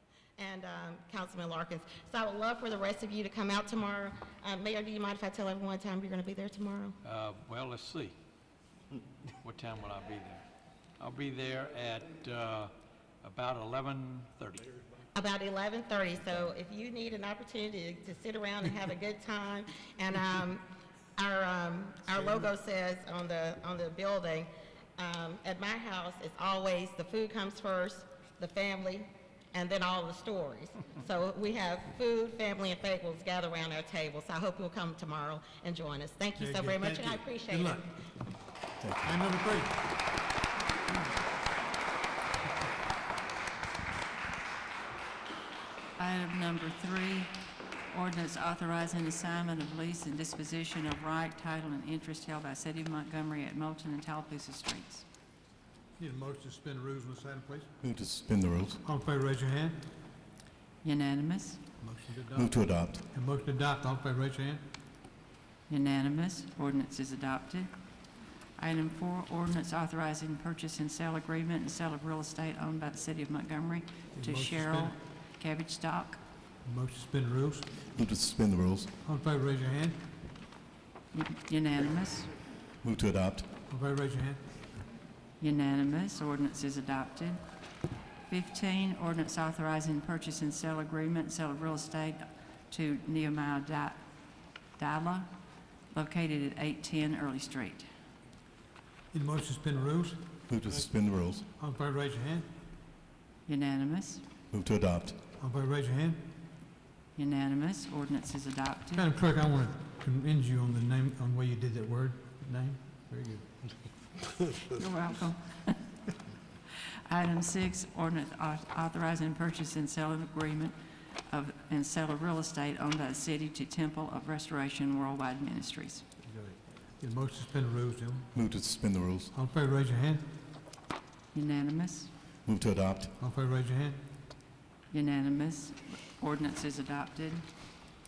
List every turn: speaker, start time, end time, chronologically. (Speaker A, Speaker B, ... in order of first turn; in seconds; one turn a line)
Speaker A: 0.4-7.0
Speaker B: 7.0-8.2
Speaker B: 9.4-10.4
Speaker B: 11.0-12.7
Speaker B: 13.2-14.7
Speaker A: 15.1-20.6
Speaker A: 21.2-37.9
Speaker C: 36.4-37.8
Speaker D: 38.8-39.1
Speaker C: 39.0-39.8
Speaker E: 46.0-47.3
Speaker E: 47.9-55.0
Speaker C: 56.0-57.7
Speaker D: 57.8-58.8
Speaker C: 58.8-59.8
Speaker E: 60.8-61.6
Speaker C: 61.8-62.5
Speaker D: 62.3-63.0
Speaker C: 63.1-64.6
Speaker E: 65.7-67.7
Speaker E: 68.6-76.2
Speaker C: 74.2-74.9
Speaker C: 76.7-77.8
Speaker D: 77.9-78.9
Speaker C: 79.0-80.0
Speaker E: 81.1-82.3
Speaker D: 82.8-83.5
Speaker C: 83.7-84.4
Speaker E: 85.4-87.4
Speaker E: 88.3-94.0
Speaker E: 94.8-95.3
Speaker E: 95.9-97.9
Speaker C: 99.1-100.2
Speaker D: 100.5-101.5
Speaker C: 101.6-102.5
Speaker E: 103.5-104.2
Speaker D: 104.5-105.2
Speaker C: 105.4-106.2
Speaker E: 107.2-109.1
Speaker C: 109.0-113.5
Speaker E: 114.7-115.8
Speaker E: 117.1-120.8
Speaker E: 121.3-126.0
Speaker C: 126.2-128.3
Speaker D: 128.3-129.3
Speaker C: 129.3-130.3
Speaker E: 131.3-132.1
Speaker D: 132.5-133.1
Speaker C: 133.2-134.0
Speaker E: 134.9-137.4